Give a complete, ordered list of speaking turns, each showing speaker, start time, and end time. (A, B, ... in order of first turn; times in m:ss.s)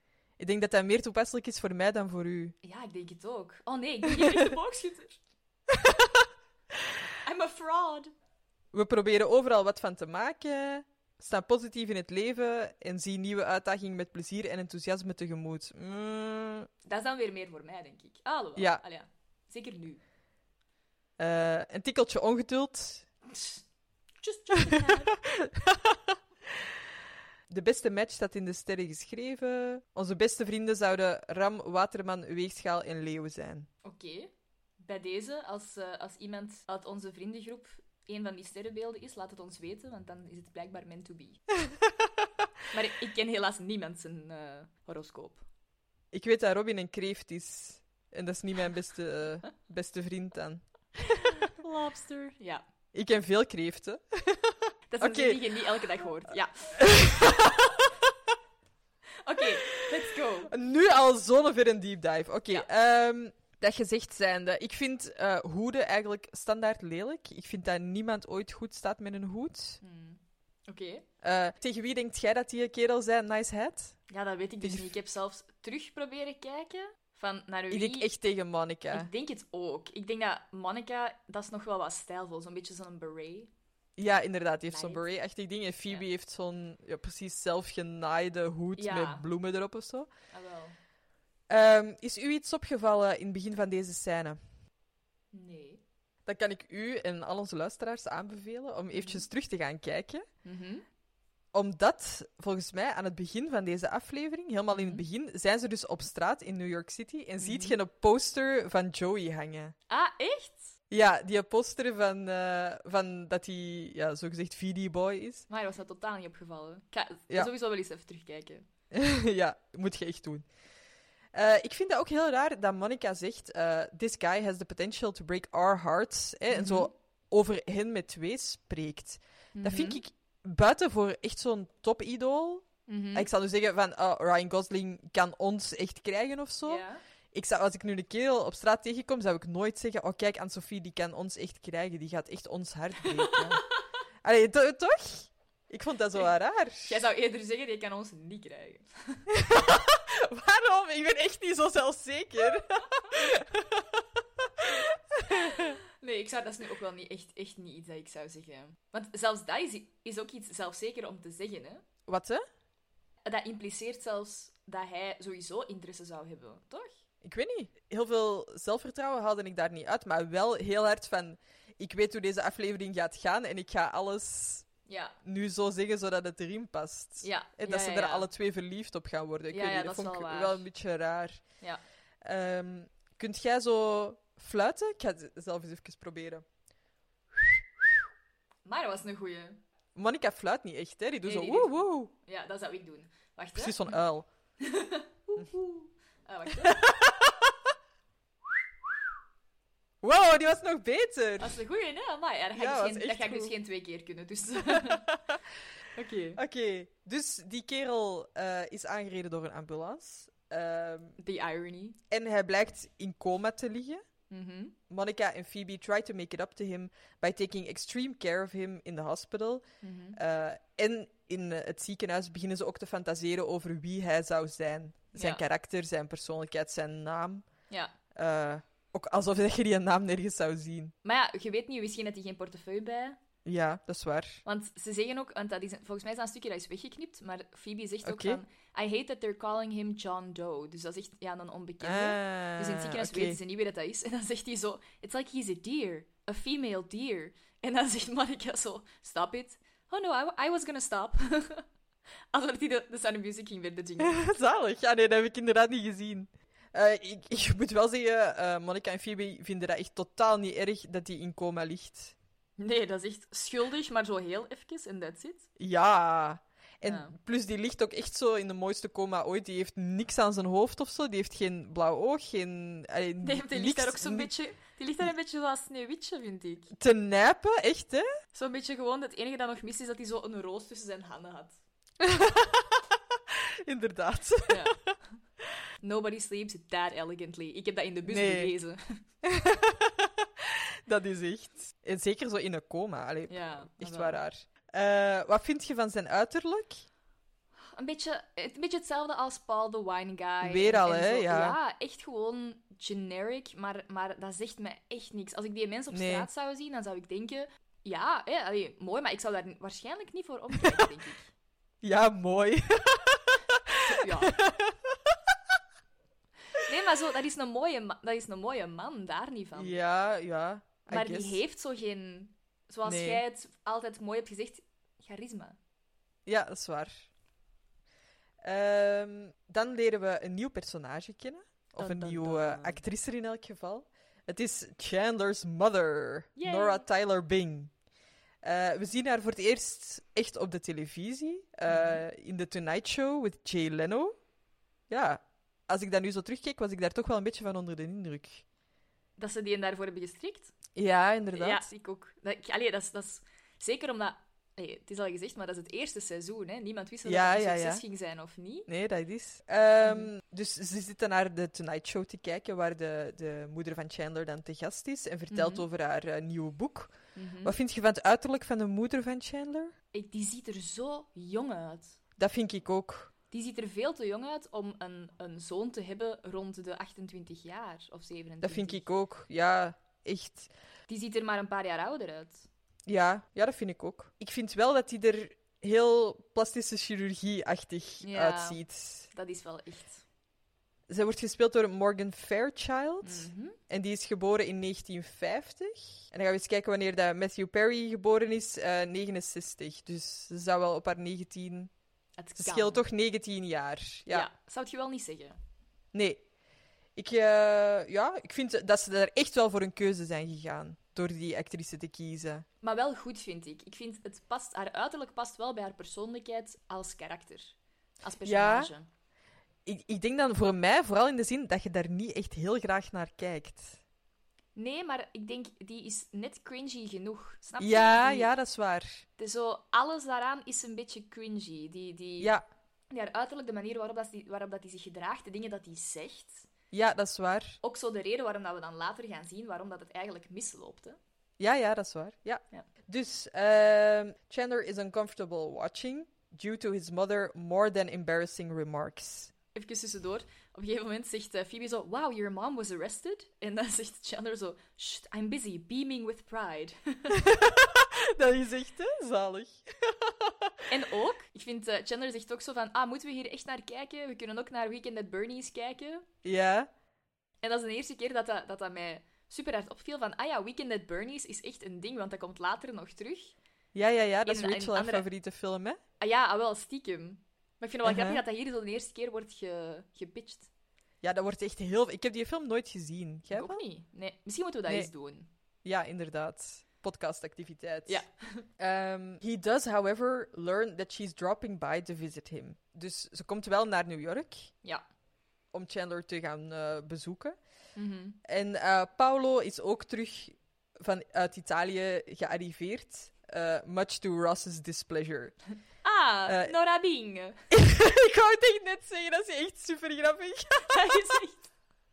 0:00.4-0:02.5 A
0:02.6-0:05.2 B
0:07.2-0:08.1 B
0:08.7-0:16.7 A
0:16.8-0:20.0 B
0:18.6-0:18.8 A
0:21.2-0:23.1 A
0:23.3-0:23.6 B
0:24.2-0:25.1 B
0:24.7-0:26.0 A
0:27.5-0:33.7 A
0:33.8-0:34.3 B
0:34.8-0:41.4 B
0:42.7-0:45.4 B
0:46.1-0:51.3 A
0:51.4-0:52.6 B
0:52.9-0:55.4 A
0:54.9-0:57.5 B
0:56.8-0:57.7 A
0:59.2-1:00.5 B
1:00.5-1:09.8 A
1:09.8-1:11.0 B
1:11.2-1:14.0 A
1:14.1-1:18.1 B
1:14.6-1:14.9 A
1:17.7-1:19.1 A
1:18.9-1:23.5 B
1:24.0-1:30.1 A
1:24.7-1:25.0 B
1:28.8-1:29.2 B
1:30.3-1:30.8 B
1:31.5-1:34.4 A
1:35.3-1:35.8 B
1:36.2-1:40.2 A
1:38.9-1:39.2 B
1:40.4-1:40.8 B
1:41.5-1:49.7 A
1:44.7-1:45.0 B
1:47.4-1:47.8 B
1:49.9-1:50.7 B
1:50.9-1:55.4 A
1:55.5-1:58.6 B
1:58.9-2:00.4 A
2:01.3-2:16.8 A
2:06.5-2:06.9 B
2:09.5-2:10.0 B
2:12.9-2:13.3 B
2:16.6-2:17.0 B
2:17.3-2:23.6 A
2:23.1-2:23.6 B
2:24.2-2:27.0 A
2:26.8-2:29.2 B
2:29.3-2:33.8 A
2:34.6-2:35.7 A
2:36.0-2:41.8 B
2:42.1-2:42.4 A
2:43.2-2:47.0 B
2:47.2-2:54.6 A
2:54.9-2:55.2 B
2:55.2-3:01.4 A
2:57.2-2:58.3 B
2:59.5-3:00.6 B
3:02.2-3:06.4 A
3:08.6-3:09.6 B
3:10.0-3:12.1 A
3:11.2-3:13.9 B
3:13.6-3:14.2 A
3:14.6-3:17.2 B
3:16.6-3:17.3 A
3:20.0-3:21.6 A
3:21.4-3:25.0 B
3:22.6-3:23.5 A
3:24.7-3:25.4 A
3:25.9-3:26.4 B
3:26.4-3:31.2 A
3:31.2-3:32.0 B
3:32.1-3:34.0 A
3:34.3-3:34.7 B
3:34.9-3:39.6 A
3:39.8-3:40.2 B
3:40.2-3:47.4 A
3:45.1-3:45.4 B
3:48.1-3:50.9 A
3:51.0-3:53.2 B
3:53.4-3:54.4 A
3:54.4-4:11.6 B
3:58.0-3:58.4 A
4:01.8-4:03.4 A
4:12.3-4:14.2 B
4:14.0-4:22.1 A
4:22.6-4:25.5 B
4:25.6-4:34.3 A
4:26.8-4:27.1 B
4:33.2-4:36.7 B
4:36.8-4:38.1 A
4:38.3-4:41.6 B
4:42.0-4:44.9 A
4:44.5-4:44.8 B
4:45.8-4:49.0 B
4:48.1-4:48.5 A
4:49.2-4:56.8 A
4:53.3-4:54.2 B
4:57.7-5:11.3 B
5:00.4-5:01.6 A
5:05.9-5:06.3 A
5:11.8-5:14.7 A
5:13.9-5:14.4 B
5:16.6-5:19.8 B
5:19.6-5:21.4 A
5:20.9-5:25.6 B
5:22.8-5:23.2 A
5:26.2-5:27.1 A
5:28.4-5:37.7 A
5:31.8-5:32.8 B
5:36.4-5:36.8 B
5:38.4-5:44.2 A
5:41.7-5:42.0 B
5:44.9-5:48.4 A
5:49.2-5:50.5 B
5:50.8-5:51.6 A
5:51.4-5:58.7 B
5:57.1-5:57.8 A
5:58.7-6:09.7 A
5:59.8-6:00.1 B
6:05.3-6:05.6 B
6:07.1-6:07.5 B
6:09.9-6:12.0 B
6:12.2-6:13.1 A
6:13.3-6:18.8 B
6:18.4-6:20.5 A
6:20.9-6:22.4 B
6:22.9-6:29.1 A
6:28.0-6:30.0 B
6:30.9-6:41.7 A
6:33.0-6:33.6 B
6:42.2-6:42.8 B
6:42.4-6:44.3 A
6:44.1-6:45.4 B
6:45.9-6:46.2 A
6:47.0-6:52.4 A
6:52.6-6:58.9 B
6:58.2-6:58.7 A
6:59.6-7:03.8 A
7:04.6-7:08.3 B
7:07.6-7:09.0 A
7:09.2-7:12.3 B
7:12.2-7:12.4 A
7:12.9-7:16.5 B
7:16.7-7:17.6 A
7:17.6-7:21.0 B
7:21.4-7:29.3 A
7:29.5-7:37.2 B
7:37.1-7:40.5 A
7:40.7-7:46.0 B
7:46.2-7:46.7 A
7:47.4-7:53.4 B
7:53.7-7:55.8 A
7:54.2-7:55.1 B
7:56.0-8:00.5 B
7:57.8-7:58.2 A
8:01.0-8:03.6 A
8:03.3-8:05.3 B
8:05.6-8:08.0 A
8:07.9-8:08.4 B
8:08.6-8:14.5 A
8:15.5-8:17.4 A
8:17.8-8:18.2 B
8:18.2-8:25.4 A
8:25.8-8:27.4 B
8:26.3-8:26.5 A
8:27.5-8:31.0 A
8:30.7-8:31.4 B